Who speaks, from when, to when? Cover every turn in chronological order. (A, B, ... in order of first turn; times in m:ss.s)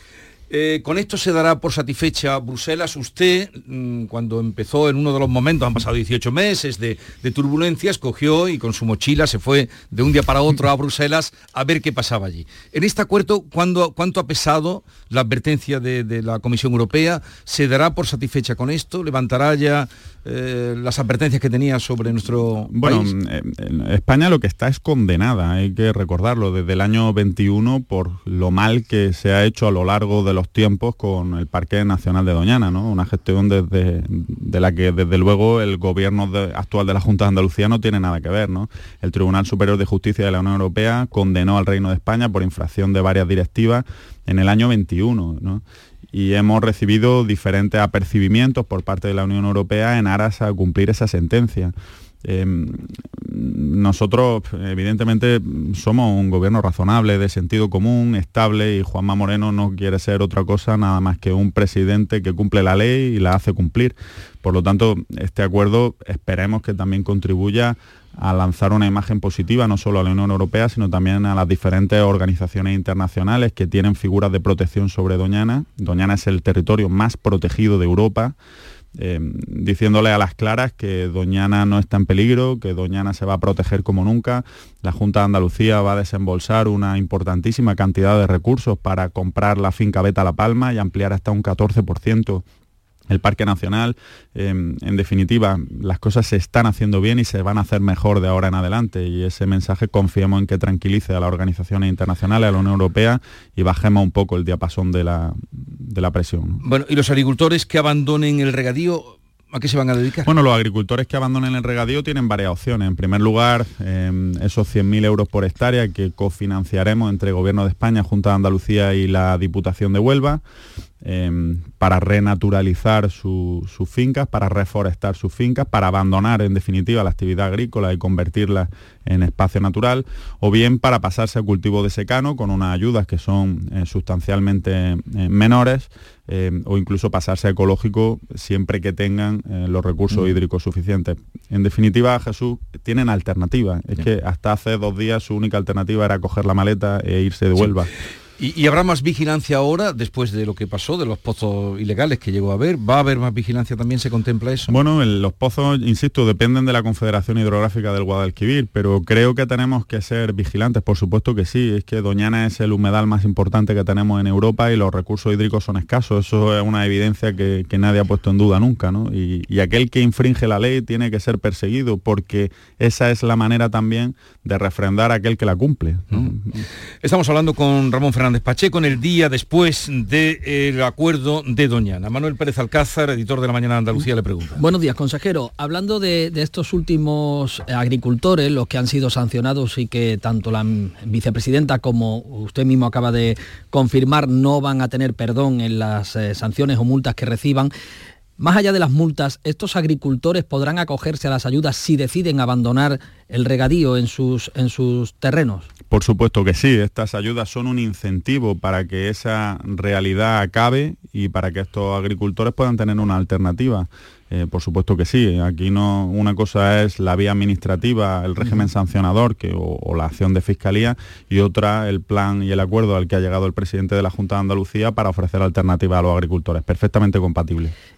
0:00.5-0:23.1 A
0:22.7-1:18.4 B
1:19.0-1:32.4 B
1:33.1-1:46.6 B
1:46.6-1:50.3 A
1:50.2-2:00.4 B
2:01.0-2:27.9 B
2:20.1-2:20.4 A
2:28.4-2:34.7 A
2:34.7-2:56.5 B
2:57.0-3:04.6 A
3:04.6-3:17.7 C
3:18.4-3:25.7 C
3:25.9-3:47.7 B